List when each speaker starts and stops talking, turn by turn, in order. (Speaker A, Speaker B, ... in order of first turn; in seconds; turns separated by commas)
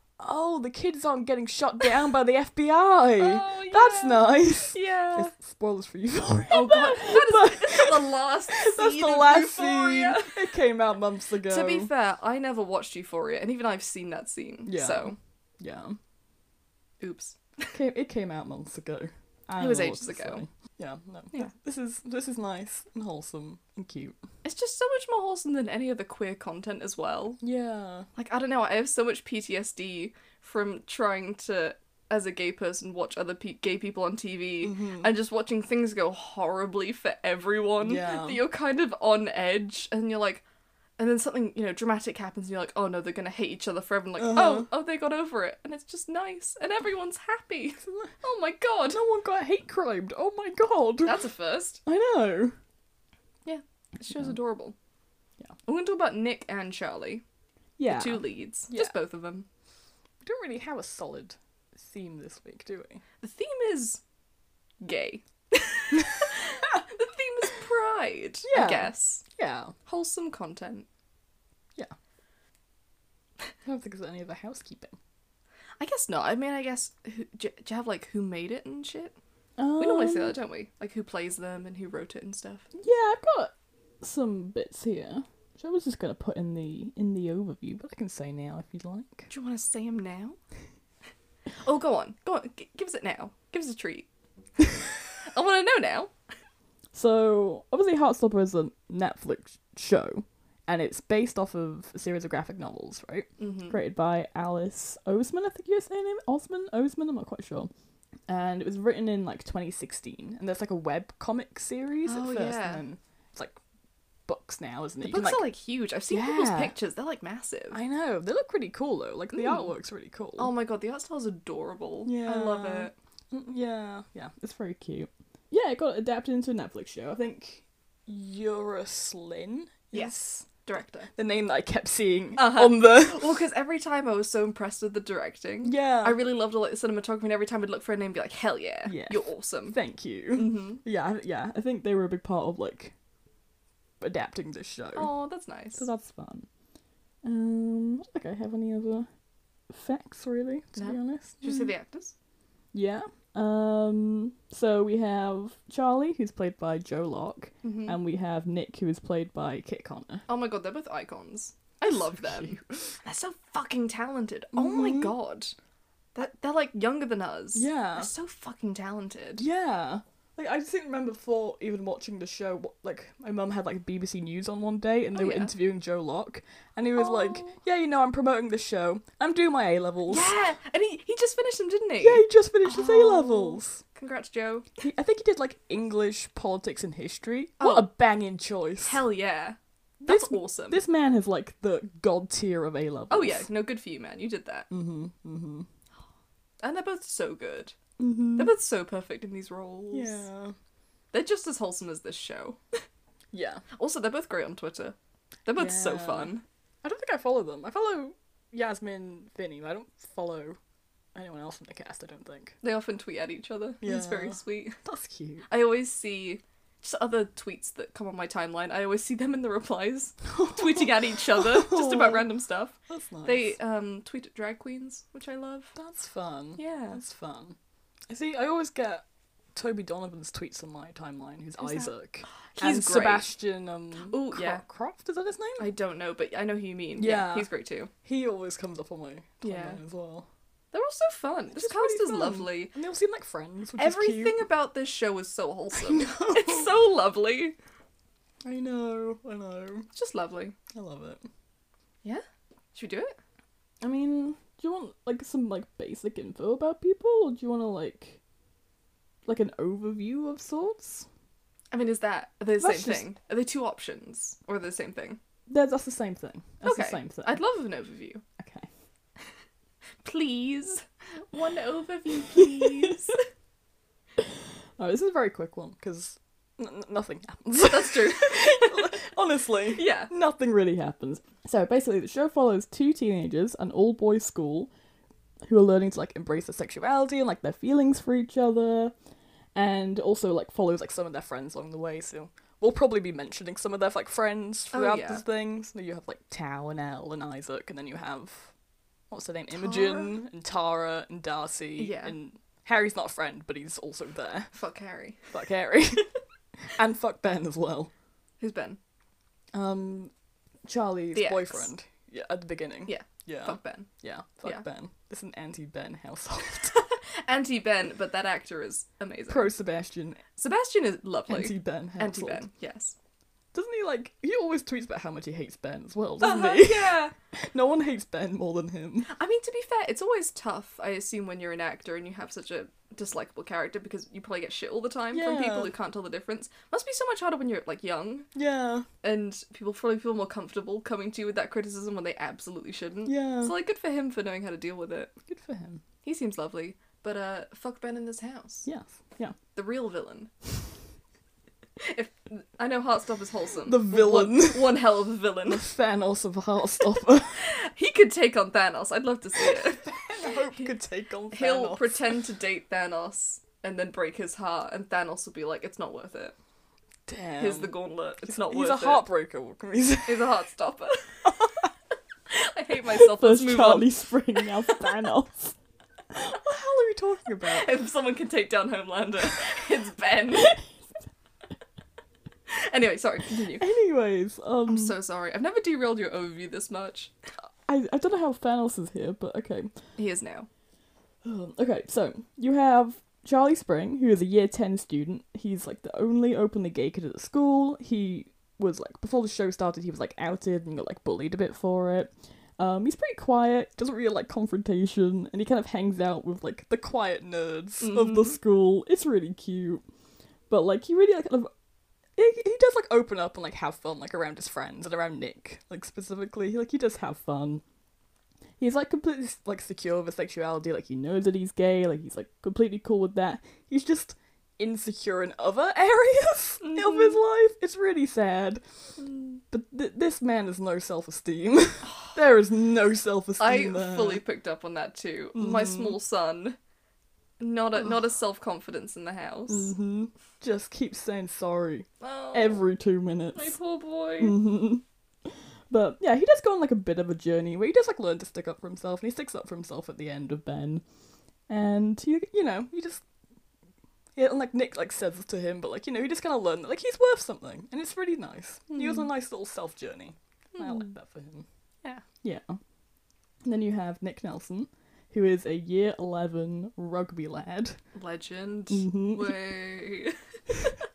Speaker A: 0.2-11.9, Speaker B: 3.2-5.3, Speaker B: 6.5-10.4, Speaker B: 11.5-15.2, Speaker A: 14.7-16.0, Speaker B: 17.0-17.8, Speaker A: 17.7-24.2, Speaker B: 19.6-20.4, Speaker B: 24.4-27.4, Speaker A: 27.4-28.1, Speaker B: 28.2-40.4, Speaker A: 34.6-35.1, Speaker A: 37.8-38.4, Speaker B: 41.0-49.0, Speaker A: 44.2-44.7, Speaker A: 47.8-48.1, Speaker A: 48.9-51.2, Speaker B: 51.0-51.8, Speaker A: 51.9-52.6, Speaker B: 53.5-54.8, Speaker B: 55.7-57.2, Speaker A: 57.8-59.0, Speaker B: 57.9-59.5, Speaker A: 60.2-63.0, Speaker B: 63.2-64.0, Speaker B: 64.8-69.2, Speaker A: 66.0-66.8, Speaker A: 68.4-69.7, Speaker B: 69.9-70.9, Speaker A: 73.7-75.0, Speaker B: 75.8-79.2, Speaker A: 79.6-80.4, Speaker B: 79.8-82.7, Speaker A: 82.7-89.3, Speaker B: 89.3-90.4, Speaker B: 91.6-94.1, Speaker B: 95.2-96.1, Speaker A: 96.9-107.7, Speaker B: 103.4-103.8, Speaker A: 108.3-113.6, Speaker B: 112.0-112.8, Speaker A: 114.3-115.5, Speaker B: 115.0-117.8, Speaker A: 116.1-116.7, Speaker A: 117.7-120.5, Speaker B: 119.3-119.7, Speaker B: 120.4-122.9, Speaker A: 122.0-130.4, Speaker B: 129.9-131.1, Speaker A: 131.1-133.4, Speaker B: 132.4-139.8, Speaker A: 135.6-136.2, Speaker A: 138.9-142.9, Speaker B: 140.3-140.8, Speaker A: 144.0-145.1, Speaker B: 144.9-145.9, Speaker A: 145.8-146.5, Speaker A: 147.2-149.1, Speaker A: 149.7-151.7, Speaker B: 150.8-152.1, Speaker A: 152.7-160.2, Speaker B: 157.6-158.0, Speaker B: 160.3-165.5, Speaker A: 161.9-162.8, Speaker A: 164.5-165.1, Speaker B: 166.2-169.4, Speaker A: 167.6-168.1, Speaker A: 169.4-180.3, Speaker B: 175.1-175.5, Speaker B: 177.0-177.6, Speaker B: 180.1-184.7, Speaker A: 182.0-183.8, Speaker A: 184.8-189.0, Speaker B: 187.6-187.9, Speaker B: 188.8-190.8, Speaker A: 190.1-193.5, Speaker B: 193.1-194.7, Speaker A: 194.7-195.7, Speaker B: 196.6-197.8, Speaker A: 198.0-198.5, Speaker B: 198.4-200.2, Speaker A: 199.9-200.6, Speaker B: 201.1-202.8, Speaker A: 203.3-203.6, Speaker B: 203.8-206.4, Speaker A: 205.6-206.3, Speaker A: 206.8-210.6, Speaker A: 211.2-212.6, Speaker B: 212.6-214.8, Speaker A: 213.8-215.5, Speaker B: 215.5-225.7, Speaker A: 220.2-222.3, Speaker A: 222.9-223.5, Speaker A: 225.8-227.6, Speaker B: 226.6-227.0, Speaker A: 228.1-229.0, Speaker A: 229.6-235.7, Speaker B: 231.6-231.9, Speaker B: 232.6-233.3, Speaker B: 234.0-234.6, Speaker B: 235.6-237.9, Speaker A: 237.0-237.5, Speaker A: 238.0-240.3, Speaker B: 239.4-239.8, Speaker B: 240.7-242.7, Speaker A: 241.5-244.4, Speaker B: 243.8-247.6, Speaker A: 245.7-246.7, Speaker A: 248.4-249.9, Speaker B: 249.9-250.6, Speaker A: 250.7-251.2, Speaker B: 252.7-253.2, Speaker A: 253.8-258.2, Speaker A: 259.3-261.1, Speaker B: 261.7-265.2, Speaker A: 262.6-263.1, Speaker A: 265.5-267.4, Speaker B: 266.6-268.2, Speaker A: 268.4-268.7, Speaker B: 270.0-273.2, Speaker A: 272.3-273.0, Speaker A: 274.2-284.7, Speaker B: 277.7-279.0, Speaker B: 279.7-280.1, Speaker A: 285.5-288.9, Speaker A: 289.6-298.5, Speaker B: 294.7-295.2, Speaker A: 299.1-304.5, Speaker B: 299.5-300.1, Speaker B: 301.8-302.1, Speaker B: 304.5-305.3, Speaker A: 305.3-306.1, Speaker A: 306.7-307.9, Speaker B: 308.4-308.8, Speaker A: 309.5-310.1, Speaker A: 310.7-316.8, Speaker B: 311.1-311.7, Speaker B: 312.9-313.9, Speaker B: 316.7-319.6, Speaker A: 319.3-320.2, Speaker B: 320.4-323.0, Speaker A: 321.3-322.5, Speaker A: 323.5-329.1, Speaker B: 326.2-327.1, Speaker B: 329.1-338.3, Speaker A: 335.1-335.7, Speaker A: 338.4-338.9, Speaker B: 339.0-345.1, Speaker A: 343.1-343.5, Speaker A: 345.3-345.8, Speaker B: 346.0-348.7, Speaker A: 348.6-349.4, Speaker B: 349.5-350.3, Speaker B: 351.8-355.7, Speaker A: 353.7-354.9, Speaker A: 355.5-357.4, Speaker B: 357.4-360.7, Speaker A: 359.4-362.2, Speaker B: 361.3-366.4, Speaker A: 367.1-370.3, Speaker B: 367.4-369.1, Speaker B: 370.1-371.7, Speaker A: 371.3-371.7, Speaker B: 372.3-374.8, Speaker A: 372.9-375.6, Speaker A: 376.1-377.8, Speaker B: 377.5-380.6, Speaker A: 380.3-380.6, Speaker B: 382.5-383.7, Speaker A: 383.6-384.9, Speaker B: 384.7-387.1, Speaker A: 387.7-389.7, Speaker B: 390.0-390.5, Speaker A: 391.2-409.8, Speaker B: 407.8-408.4, Speaker A: 410.5-411.5, Speaker A: 412.2-417.6, Speaker A: 418.6-428.6, Speaker B: 426.6-427.2, Speaker B: 429.0-429.4, Speaker A: 429.5-434.2, Speaker B: 431.9-432.2, Speaker B: 433.4-436.6, Speaker A: 435.4-436.0, Speaker B: 437.4-439.7, Speaker A: 439.5-443.6, Speaker B: 442.0-442.7, Speaker B: 443.3-444.4, Speaker A: 444.2-444.8, Speaker A: 445.7-450.8, Speaker A: 451.5-453.0, Speaker A: 454.1-461.5, Speaker B: 458.7-459.1, Speaker B: 460.6-460.9, Speaker A: 462.2-462.6, Speaker A: 463.4-467.8, Speaker B: 467.9-470.8, Speaker A: 468.7-469.4